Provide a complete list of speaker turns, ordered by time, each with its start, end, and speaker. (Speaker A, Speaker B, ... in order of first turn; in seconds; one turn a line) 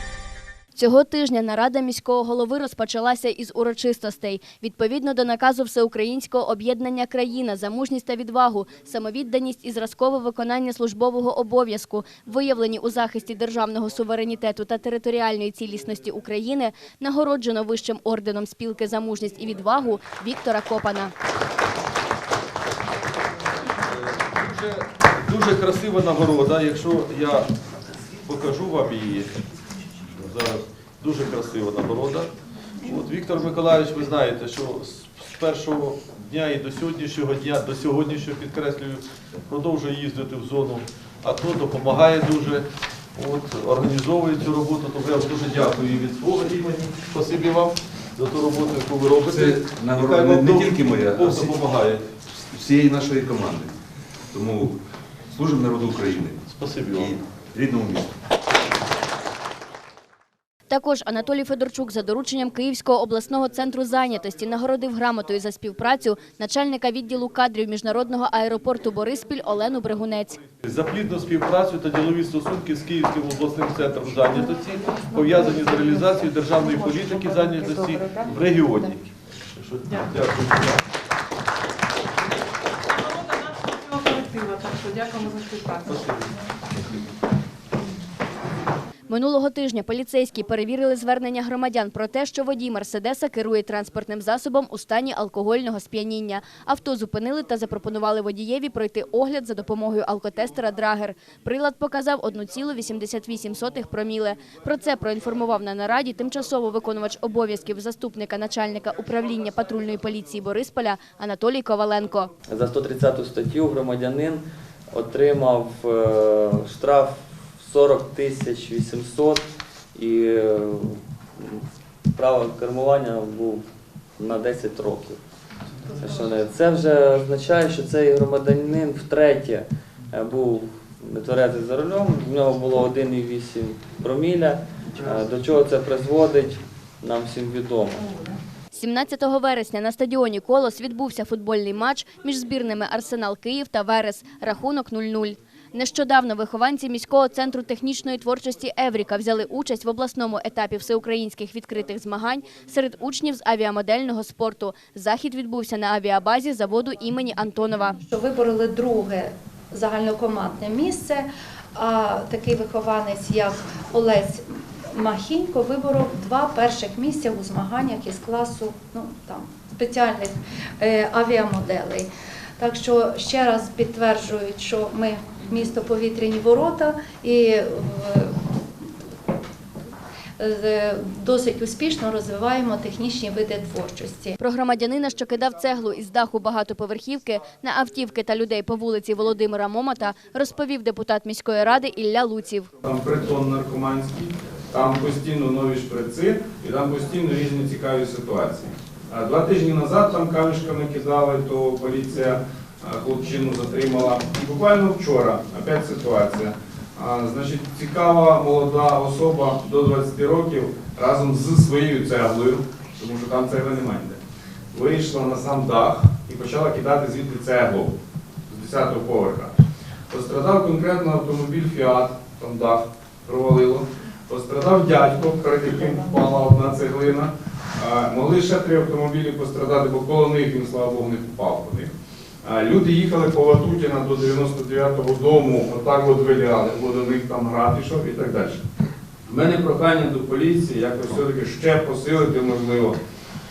Speaker A: 0.8-21.1
Speaker B: 23.9-27.5
Speaker B: 28.2-29.3
Speaker B: 30.2-32.3
Speaker B: 32.8-52.0
Speaker C: 49.3-51.6
Speaker C: 52.5-53.7
Speaker C: 54.3-54.8
Speaker C: 55.3-56.4
Speaker B: 56.5-57.2
Speaker C: 56.9-58.1
Speaker A: 60.7-70.4
Speaker B: 70.6-80.8
Speaker D: 75.1-78.4
Speaker B: 85.8-86.4
Speaker A: 89.1-112.3
Speaker E: 112.5-123.7
Speaker E: 124.2-125.2
Speaker E: 126.0-138.1
Speaker A: 138.7-158.0
Speaker D: 158.1-172.1
Speaker D: 172.6-178.4
Speaker D: 180.4-184.4
Speaker A: 184.4-192.7
Speaker F: 192.8-214.2
Speaker F: 214.7-217.9
Speaker F: 218.5-231.9
Speaker F: 232.4-238.6
Speaker F: 239.3-243.0